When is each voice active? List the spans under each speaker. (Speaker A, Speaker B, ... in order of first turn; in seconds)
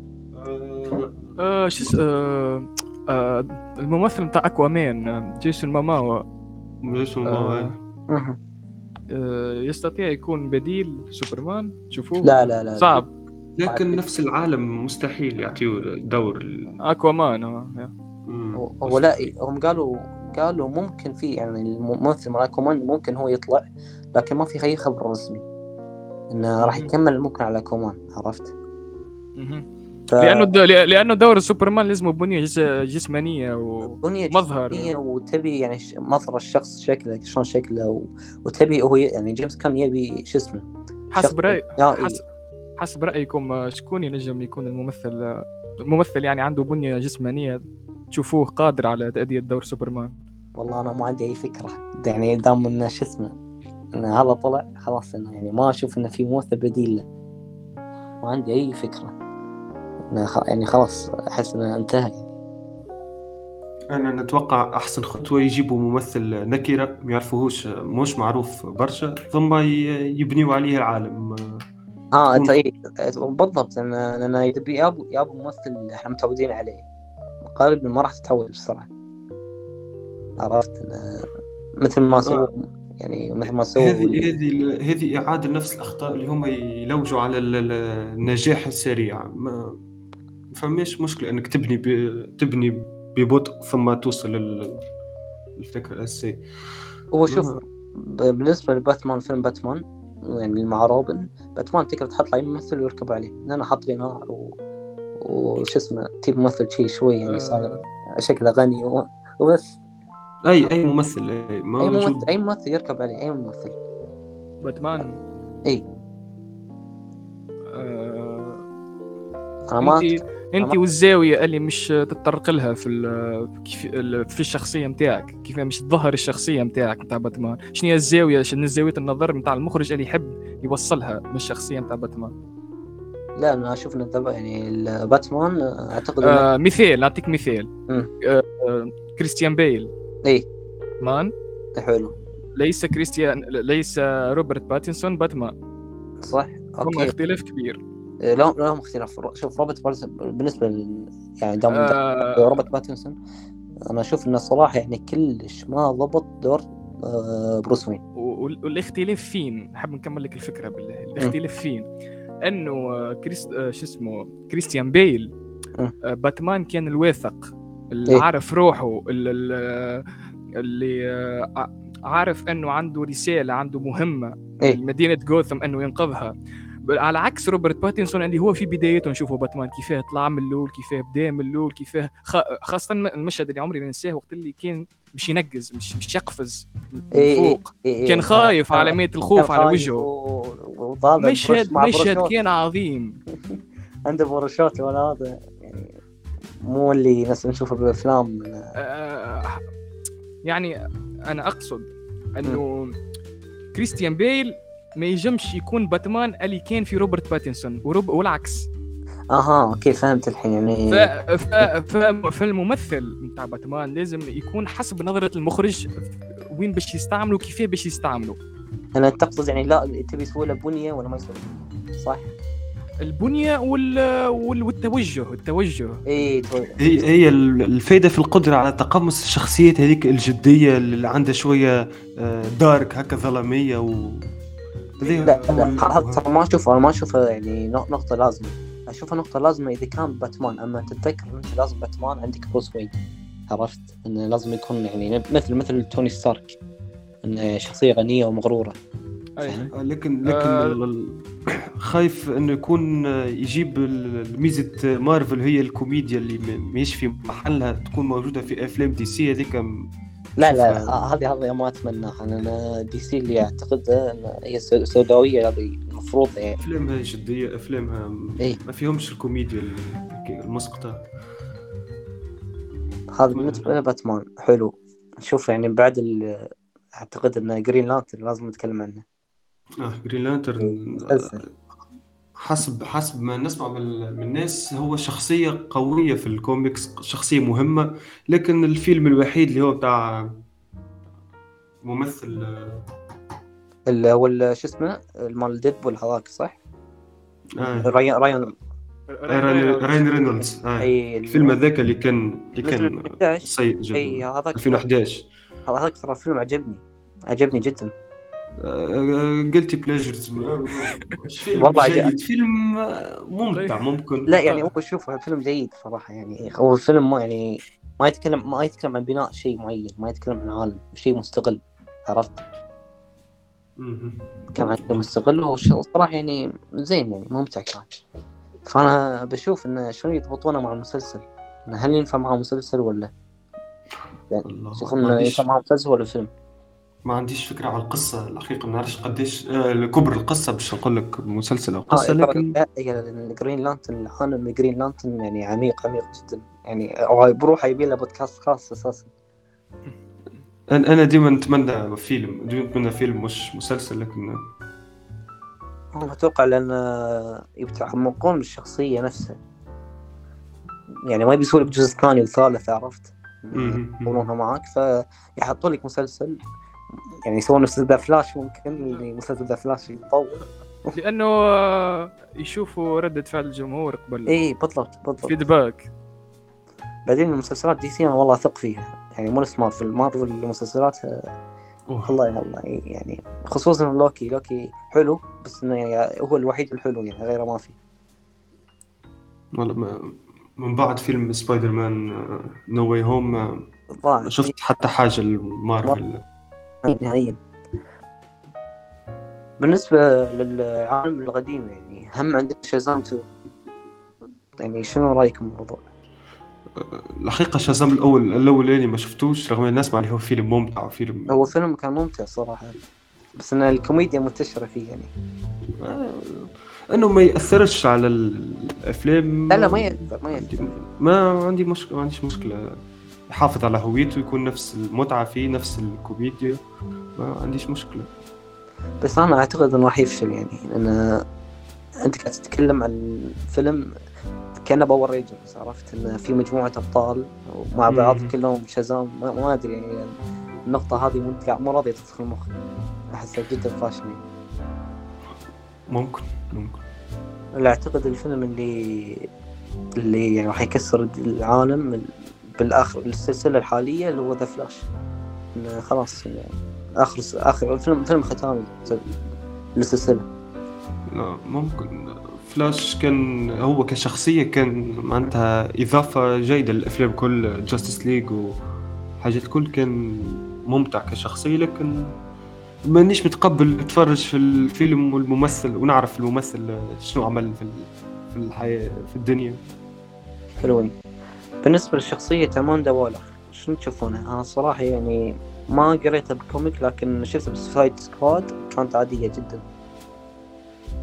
Speaker A: 0.3-1.9, 6.8-7.7, 13.6-16.7, 18.3-19.1, 63.9-71.4, 83.8-89.8, 90.5-94.8, 95.6-96.4, 97.3-97.6, 110.5-112.3, 226.8-234.2, 235.0-236.2, 249.7-259.7, 260.4-260.9, 266.6-271.0, 273.3-273.7, 279.8-281.4, 282.4-290.3, 291.8-292.7, 297.6-297.9, 299.3-305.3, 308.6-314.4, 323.8-325.0, 334.4-335.5, 337.1-342.5, 350.7-354.4, 363.5-364.2, 381.9-382.2, 389.5-393.6, 394.2-396.2, 406.8-411.3, 415.8-422.6, 423.3-426.6, 427.2-428.1, 437.9-438.3, 445.9-446.8, 461.1-468.5, 469.2-472.1, 472.9-479.6
Speaker B: 1.4-6.2, 7.2-7.7, 9.1-13.1, 16.9-17.9, 26.6-26.9, 29.4-29.6, 30.2-34.9, 41.1-42.2, 42.8-47.6, 48.1-50.1, 107.2-107.8, 114.6-115.2, 117.7-118.6, 119.8-132.3, 136.2-137.7, 138.2-139.9, 141.0-141.3, 142.6-145.5, 146.8-147.8, 151.7-152.6, 158.2-161.8, 162.4-165.3, 166.1-170.1, 170.6-176.3, 176.8-190.1, 191.2-193.2, 198.8-199.6, 200.4-200.7, 201.3-202.9, 203.7-208.7, 210.9-218.4, 223.0-226.2, 235.0-235.7, 250.2-250.8, 299.1-300.1, 313.5-313.8, 368.7-369.0, 370.9-374.3, 375.2-375.9
Speaker C: 8.1-8.4, 12.2-13.0, 13.6-14.0, 18.6-25.4, 26.3-28.5, 30.1-30.5, 33.9-40.6, 41.2-42.2, 50.5-53.3, 54.0-57.0, 58.2-59.1, 60.1-62.2, 72.1-76.8, 77.4-78.9, 80.4-81.2, 81.8-84.2, 97.1-104.5, 105.2-109.8, 111.8-113.7, 119.7-120.8, 133.4-136.5, 141.8-142.1, 146.2-147.1, 148.2-153.1, 153.9-158.0, 187.1-192.3, 193.5-196.0, 196.6-198.6, 209.3-211.1, 218.9-222.3, 226.1-226.8, 235.2-242.9, 243.5-246.6, 247.2-248.8, 249.4-249.7, 260.4-266.6, 273.1-279.0, 280.6-281.4, 293.9-296.6, 297.8-298.5, 300.8-301.6, 302.6-304.8, 305.7-307.9, 311.6-312.1, 314.3-322.4, 324.6-327.9, 328.7-333.1, 334.3-336.3, 341.9-349.1, 355.9-359.4, 361.1-366.4, 367.2-370.3, 374.3-375.3, 377.1-381.2, 382.0-387.7, 394.0-394.5, 396.8-397.4, 399.6-403.2, 404.6-405.9, 411.3-412.7, 413.4-415.1, 419.5-420.5, 429.0-431.1, 432.0-433.8, 434.6-440.1, 440.7-442.5, 443.1-444.2, 447.6-449.3, 450.0-454.9, 455.5-459.1, 459.8-460.2, 480.6-480.9, 481.6-489.6